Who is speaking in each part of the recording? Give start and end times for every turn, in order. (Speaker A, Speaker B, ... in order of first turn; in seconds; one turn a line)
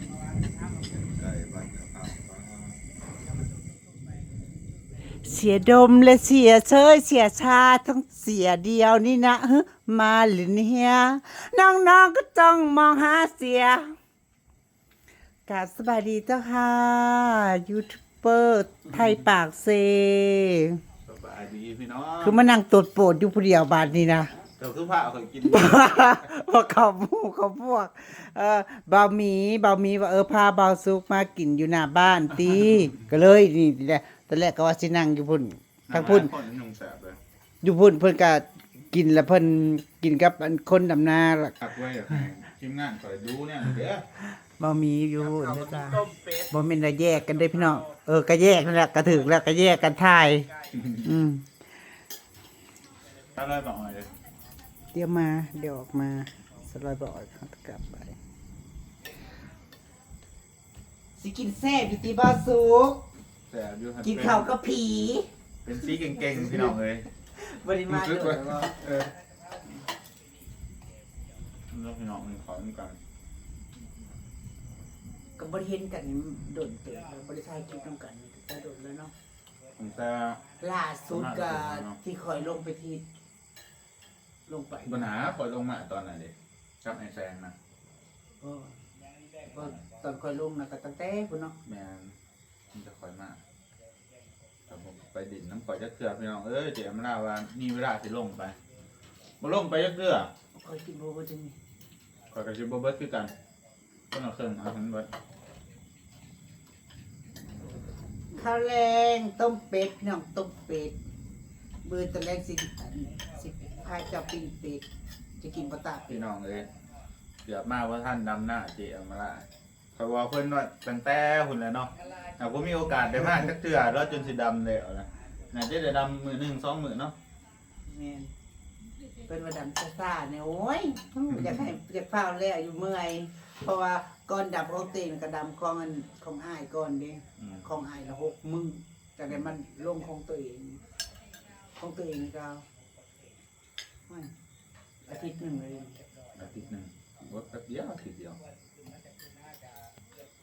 Speaker A: 0.9-2.8
Speaker B: 5.2-13.9
Speaker B: 15.5-20.8
Speaker A: 21.0-22.4
Speaker B: 22.2-24.3
Speaker A: 24.6-26.2
Speaker B: 25.4-36.3
Speaker A: 35.9-37.2
Speaker B: 37.6-41.6
Speaker A: 41.6-44.0
Speaker B: 44.2-50.5
Speaker A: 50.7-51.0
Speaker B: 51.0-51.5
Speaker A: 53.3-54.1
Speaker B: 54.9-58.1
Speaker B: 61.2-63.0
Speaker A: 63.5-64.5
Speaker B: 64.0-65.3
Speaker A: 65.6-67.1
Speaker B: 66.2-66.8
Speaker B: 67.3-68.8
Speaker A: 67.9-69.1
Speaker A: 71.7-73.0
Speaker B: 75.4-79.1
Speaker A: 79.8-80.4
Speaker B: 80.6-83.0
Speaker A: 81.1-82.0
Speaker B: 84.5-85.1
Speaker A: 84.8-87.5
Speaker B: 88.4-88.7
Speaker B: 89.5-91.5
Speaker A: 91.6-92.2
Speaker A: 92.7-93.4
Speaker A: 94.7-98.5
Speaker A: 99.4-100.3
Speaker B: 100.5-101.5
Speaker A: 102.3-103.3
Speaker A: 104.1-105.1
Speaker B: 108.3-111.0
Speaker B: 111.8-114.8
Speaker B: 115.4-116.2
Speaker A: 116.1-116.7
Speaker A: 117.4-119.4
Speaker A: 120.0-127.1
Speaker B: 127.8-128.3
Speaker B: 129.3-140.8
Speaker A: 131.3-131.7
Speaker A: 137.4-137.6
Speaker B: 141.8-142.6
Speaker B: 145.1-146.0
Speaker A: 146.3-148.4